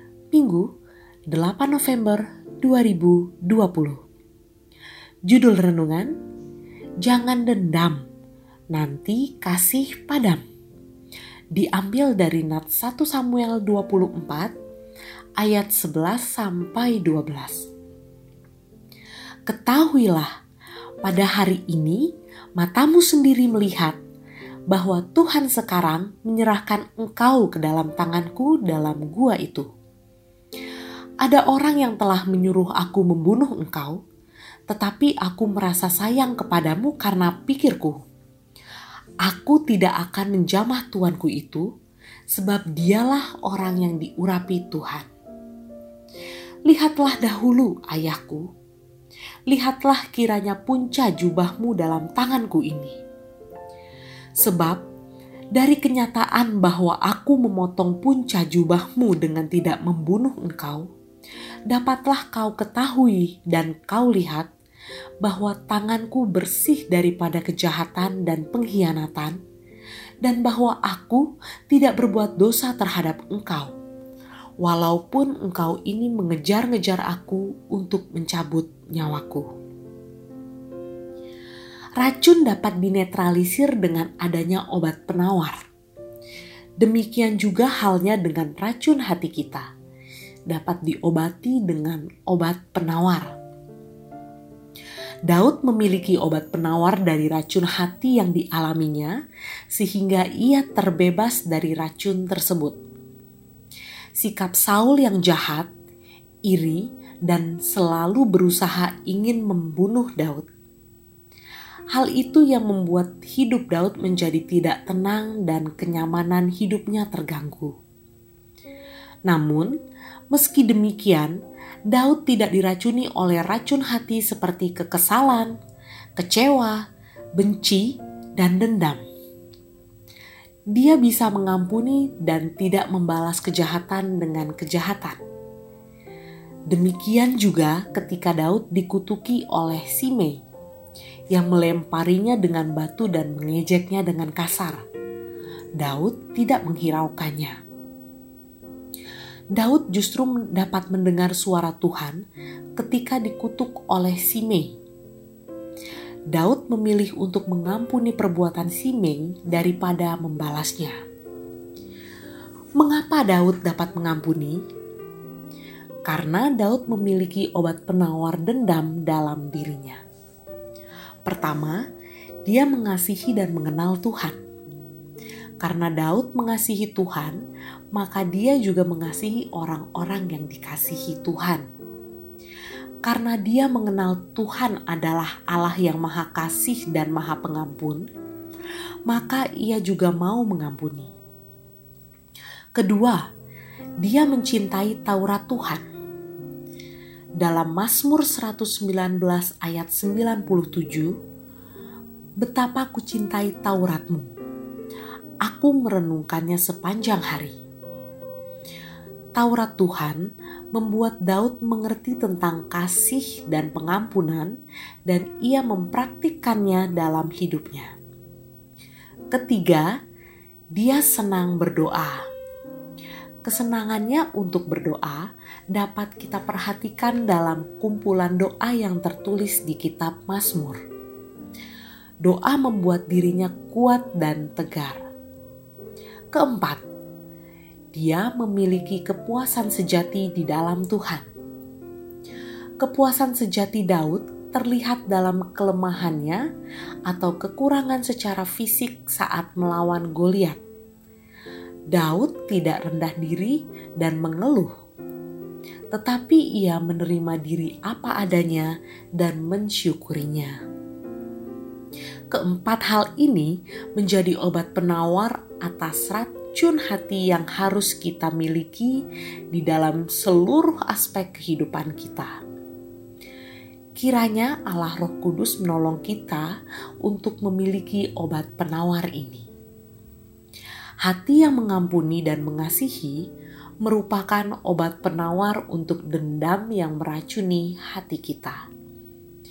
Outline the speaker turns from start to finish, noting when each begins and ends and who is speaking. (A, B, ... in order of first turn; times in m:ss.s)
0:00.3-0:00.7 A
0:01.3-0:04.0 A
0:05.3-0:06.1 A
0:07.0-0:08.0 A
0:08.7-0:10.4 A
0:11.5-0:14.5 A
0:15.4-0:17.7 A
0:19.5-0:20.3 A
0:21.0-0:22.1 A
0:22.6-0:24.0 A
0:24.7-0:29.7 A
0:31.2-0:34.0 A
0:34.7-0:38.0 A
0:39.2-0:41.7 A
0:42.3-0:45.1 A
0:46.7-0:48.5 A
0:49.5-0:53.0 A
0:54.4-0:54.8 A
0:55.6-1:00.9 A
1:01.7-1:04.5 A
1:05.2-1:09.4 A
1:10.2-1:13.7 A
1:14.6-1:19.5 A
1:22.0-1:25.6 A
1:26.8-1:29.7 A
1:30.5-1:33.4 A
1:35.3-1:39.1 A
1:39.7-1:42.8 A
1:44.2-1:45.7 A
1:46.5-1:50.5 A
1:51.9-1:57.8 A
1:59.3-1:59.8 A
2:00.3-2:01.4 A
2:01.9-2:05.6 A
2:06.2-2:06.8 A
2:07.4-2:09.0 A
2:10.7-2:15.2 A
2:16.7-2:20.4 A
2:21.3-2:24.8 A
2:25.8-2:27.6 A
2:29.6-2:32.2 A
2:32.8-2:34.8 A
2:36.3-2:41.0 A
2:42.8-2:44.6 A
2:46.0-2:50.0 A
2:51.2-2:51.8 A
2:52.4-2:54.4 A
2:55.6-2:57.4 A
2:57.9-3:01.6 A
3:03.0-3:08.1 A
3:09.1-3:11.2 A
3:12.8-3:13.2 A
3:14.0-3:15.9 A
3:17.4-3:21.1 A
3:22.4-3:24.3 A
3:25.4-3:27.6 A
3:29.4-3:34.6 A
3:35.1-3:37.9 A
3:39.3-3:39.9 A
3:40.8-3:42.2 A
3:43.4-3:50.8 A
3:52.2-3:55.1 A
3:56.3-3:56.8 A
3:57.9-4:01.3 A
4:02.8-4:06.4 A
4:07.1-4:10.6 A
4:11.9-4:14.7 A
4:15.9-4:20.6 A
4:22.3-4:32.3 A
4:34.0-4:36.5 A
4:37.0-4:39.5 A
4:41.0-4:43.2 A
4:43.8-4:48.6 A